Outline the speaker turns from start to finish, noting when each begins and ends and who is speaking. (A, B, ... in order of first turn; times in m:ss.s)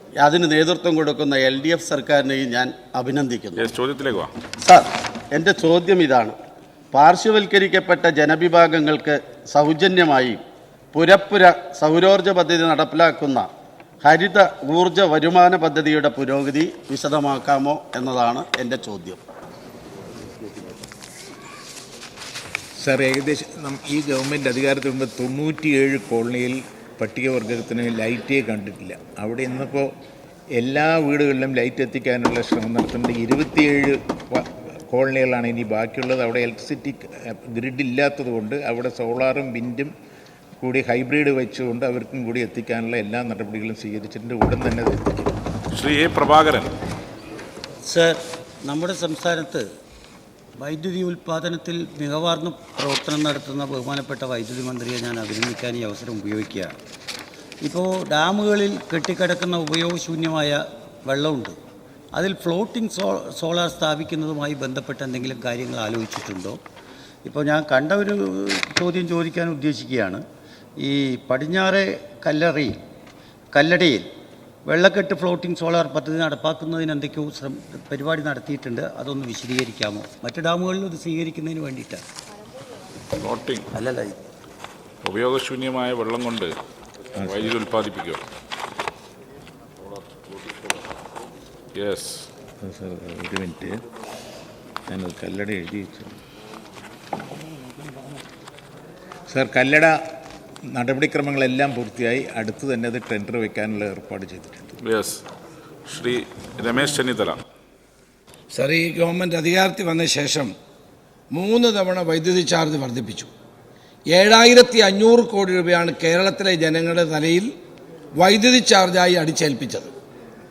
0:00.2-0:03.7 A
0:03.6-0:04.3 B
0:04.6-0:06.4 A
0:06.9-0:10.4 A
0:10.9-0:13.5 A
0:14.0-0:19.2 A
0:22.8-0:29.9 C
0:30.6-0:39.9 C
0:40.6-0:45.3 C
0:45.7-0:46.7 B
0:47.8-0:49.7 D
0:50.6-0:56.8 D
0:57.6-1:01.6 D
1:02.1-1:06.6 D
1:07.3-1:10.2 D
1:10.8-1:12.8 D
1:13.5-1:14.1 D
1:14.7-1:22.0 D
1:23.2-1:23.7 B
1:23.8-1:24.2 D
1:25.0-1:26.6 B
1:27.2-1:28.2 B
1:27.2-1:27.5 C
1:31.8-1:32.3 B
1:32.6-1:33.8 C
1:34.9-1:36.2 C
1:39.3-1:40.0 C
1:40.6-1:44.7 C
1:44.8-1:45.2 B
1:45.9-1:47.4 B
1:48.5-1:50.6 E
1:51.3-1:53.3 E
1:54.1-1:57.5 E
1:58.2-1:59.9 E